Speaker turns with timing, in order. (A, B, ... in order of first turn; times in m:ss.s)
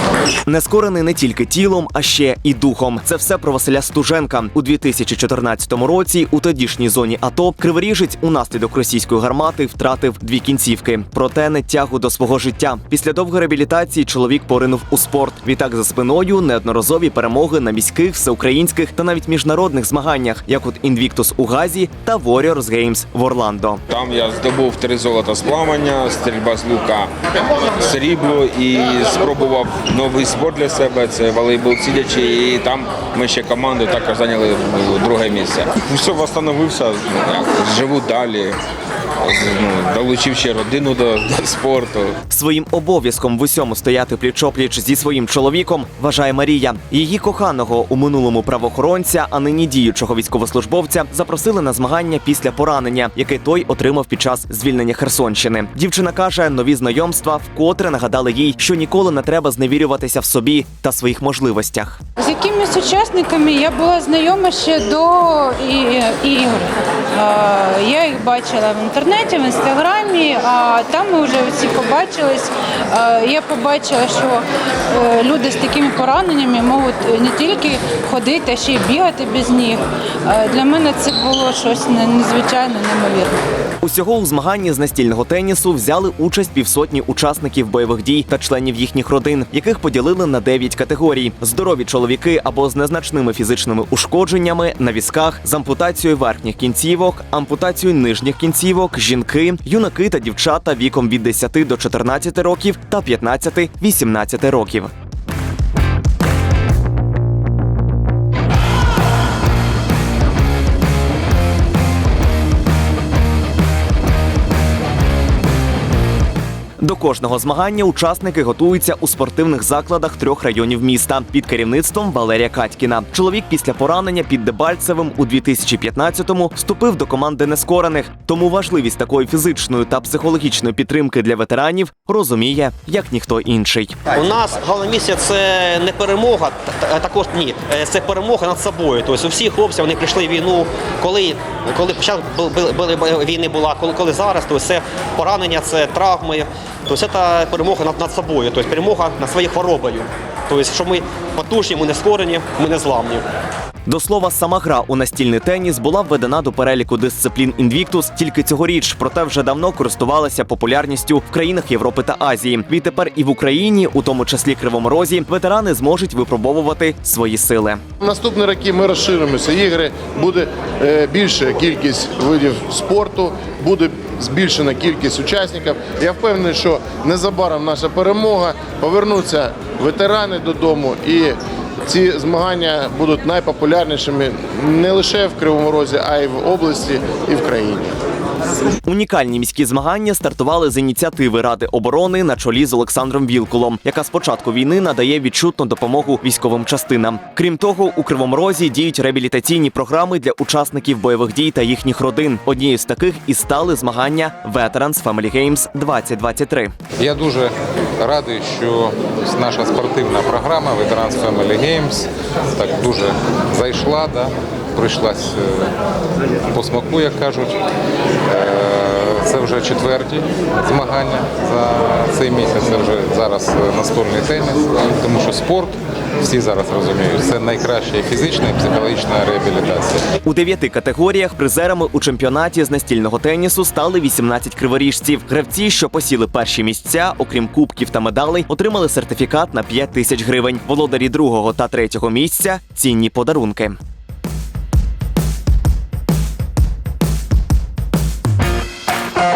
0:00.5-0:23.8 A
0:23.9-0:27.1 B
0:27.8-0:38.6 B
0:39.2-0:42.2 B
0:42.3-1:02.0 A
1:02.2-1:23.4 C
1:23.8-1:44.9 A
1:56.8-2:14.0 A
2:14.2-2:33.2 D
2:33.8-2:47.8 A
2:48.0-3:07.9 E
3:08.8-3:26.7 A
3:27.0-3:35.7 F
3:36.5-3:37.6 F
3:38.3-3:50.0 F
3:50.2-4:03.8 A